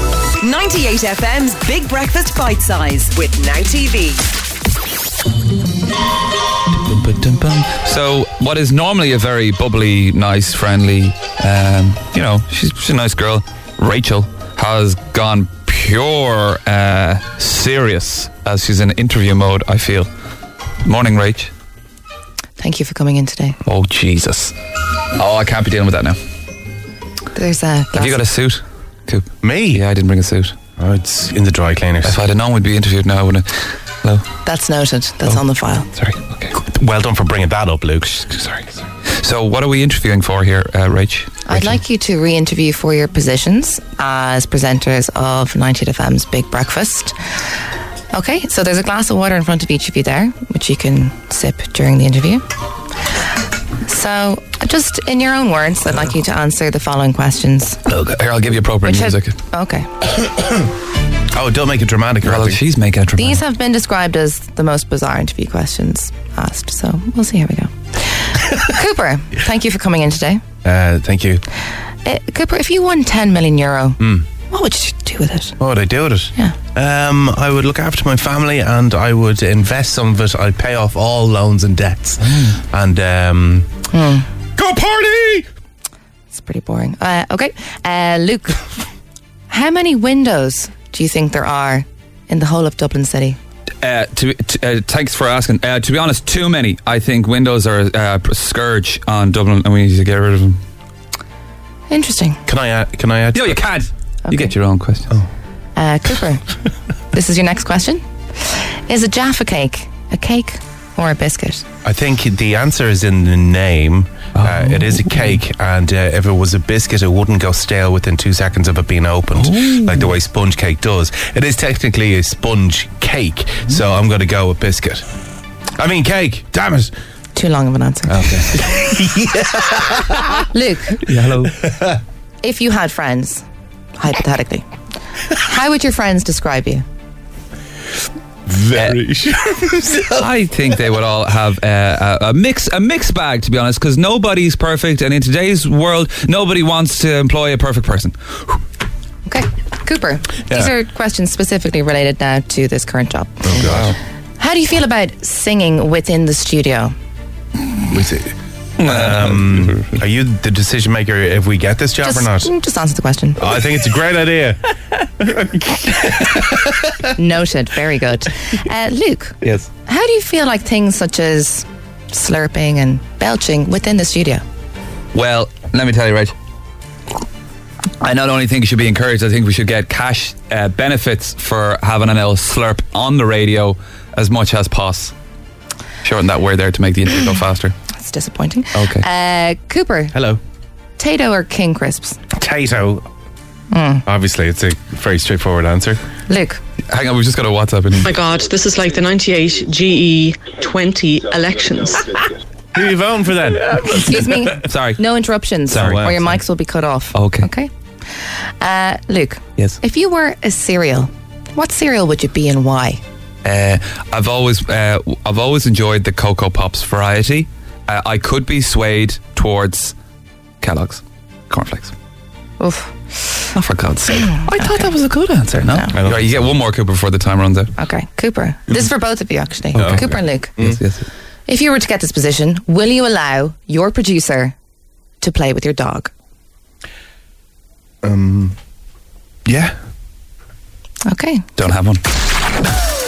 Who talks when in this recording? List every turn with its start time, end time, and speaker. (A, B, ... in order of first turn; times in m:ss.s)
0:00.4-0:04.2 A
0:06.7-0:20.1 B
0:20.8-0:21.5 B
0:22.6-0:23.6 C
0:23.6-0:24.5 B
0:25.1-0:26.2 B
0:27.3-0:28.2 C
0:27.9-0:30.6 B
0:29.4-0:29.8 D
0:30.8-0:32.2 D
0:32.0-0:33.5 B
0:34.4-0:35.9 C
0:35.9-0:36.6 B
0:36.6-0:38.8 D
0:39.2-0:41.8 B
0:41.4-0:47.2 C
0:48.1-0:52.4 C
0:53.8-0:57.8 C
0:57.8-0:59.4 B
0:58.8-0:59.9 C
1:01.3-1:02.6 D
1:02.2-1:03.4 B
1:03.2-1:10.4 C
1:10.6-1:11.4 D
1:12.0-1:15.6 C
1:15.6-1:23.7 D
1:23.9-1:24.3 C
1:24.6-1:25.4 D
1:26.3-1:28.7 C
1:29.5-1:33.4 C
1:33.8-1:40.6 B
1:41.9-1:42.4 C
1:42.5-1:43.6 D
1:43.3-1:45.1 B
1:44.3-1:44.5 C
1:45.8-1:46.4 C
1:47.1-1:51.6 C
1:51.8-2:05.0 D
1:54.4-1:55.4 B
1:59.4-2:00.1 B
2:05.8-2:06.9 D
2:07.3-2:08.2 C
2:08.1-2:10.4 D
2:10.4-2:11.0 C
2:11.0-2:11.7 B
2:11.6-2:11.9 D
2:12.4-2:13.4 C
2:14.0-2:14.6 C
2:15.3-2:16.8 C
2:18.4-2:20.3 D
2:20.1-2:28.6 B
2:29.2-2:33.5 C
2:33.4-2:34.0 D
2:33.6-2:34.0 B
2:34.4-2:36.9 C
2:37.9-2:42.5 D
2:38.8-2:40.0 B
2:42.0-2:43.5 C
2:43.4-2:46.7 D
2:47.1-2:54.4 C
2:49.4-2:49.7 B
2:55.1-2:56.3 B
2:58.0-3:05.1 B
3:06.0-3:07.7 B
3:07.9-3:10.1 C
3:08.7-3:09.0 B
3:10.1-3:10.4 D
3:11.0-3:12.2 C
3:12.3-3:13.0 D
3:13.7-3:14.0 C
3:14.0-3:16.0 D
3:16.3-3:16.6 C
3:16.9-3:18.1 B
3:18.0-3:22.3 E
3:22.7-3:24.1 D
3:23.7-3:25.0 B
3:23.9-3:27.7 C
3:25.7-3:26.3 B
3:25.7-3:26.2 D
3:27.1-3:27.5 B
3:28.6-3:33.0 C
3:33.4-3:39.9 B
3:40.6-3:41.9 B
3:42.6-3:43.3 C
3:43.5-3:47.7 B
3:44.6-3:44.9 C
3:45.6-3:45.9 C
3:45.9-3:46.5 D
3:47.8-3:50.6 C
3:49.7-3:50.8 D
3:50.6-3:51.1 B
3:51.5-3:54.5 C
3:55.2-3:56.1 C
3:58.0-3:58.6 D
3:59.4-3:59.7 D
4:01.0-4:01.5 C
4:01.6-4:02.0 B